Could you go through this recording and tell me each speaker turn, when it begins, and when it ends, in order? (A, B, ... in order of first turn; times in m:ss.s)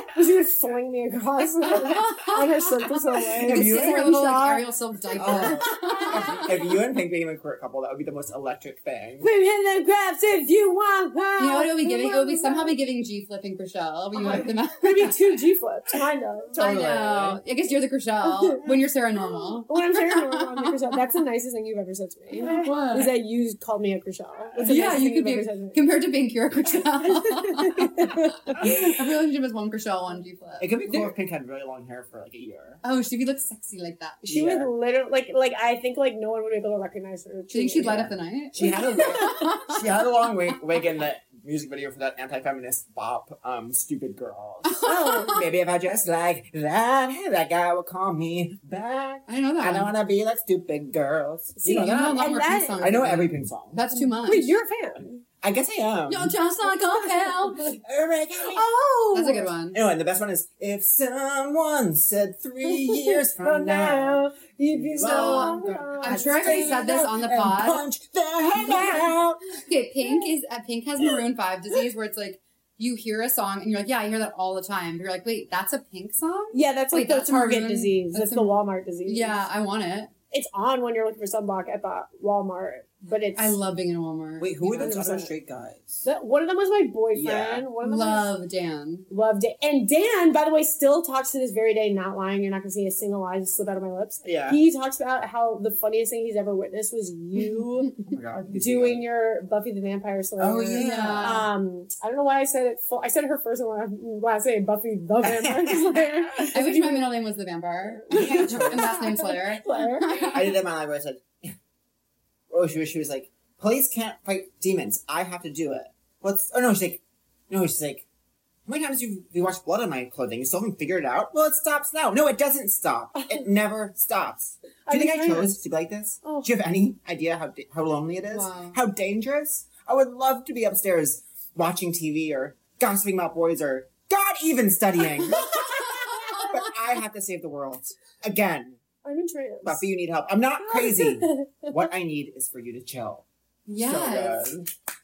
0:00.2-0:06.6 A
0:01.9-0:02.5 B
0:03.2-0:04.3 C
0:03.4-0:06.5 B
0:05.2-0:09.3 C
0:09.2-0:12.8 A
0:11.4-0:15.1 B
0:14.2-0:16.6 A
0:16.5-0:17.4 C
0:16.6-0:20.7 B
0:19.6-0:25.8 A
0:22.4-0:23.1 B
0:24.7-0:31.1 B
0:27.2-0:28.6 A
0:30.6-0:32.8 C
0:32.8-0:34.2 B
0:34.2-0:34.7 C
0:34.3-0:38.1 A
0:37.5-0:39.8 B
0:37.8-0:53.8 C
0:38.9-0:39.4 A
0:44.6-0:45.5 B
0:44.8-0:45.3 A
0:49.3-0:49.9 B
0:51.6-0:53.0 A
0:51.6-0:54.6 B
0:53.9-0:55.2 A
0:55.4-0:56.4 C
0:56.1-0:57.8 B
0:57.0-0:57.4 A
0:57.6-0:58.7 C
0:58.4-0:59.5 A
0:59.1-0:59.8 B
0:59.7-1:09.4 C
1:02.8-1:06.9 A
1:05.0-1:07.8 B
1:08.6-1:09.2 A
1:09.5-1:20.1 B
1:16.5-1:19.4 A
1:20.3-1:23.6 A
1:23.4-1:24.9 B
1:24.4-1:26.1 C
1:24.6-1:25.3 A
1:26.0-1:28.3 A
1:27.1-1:27.7 C
1:27.8-1:29.1 B
1:29.1-1:47.1 A
1:34.2-1:34.6 C
1:38.1-1:39.1 C
1:40.4-1:41.5 C
1:40.7-1:41.5 B
1:45.2-1:46.6 C
1:46.5-1:50.6 B
1:47.8-1:50.4 A
1:48.2-1:49.1 C
1:50.2-1:51.6 C
1:52.5-1:58.1 C
1:58.7-2:18.8 C
2:04.9-2:05.5 A
2:06.2-2:06.5 A
2:08.3-2:08.8 B
2:16.3-2:16.5 B
2:19.0-2:19.8 A
2:19.6-2:24.7 C
2:20.6-2:21.8 A
2:23.7-2:24.5 B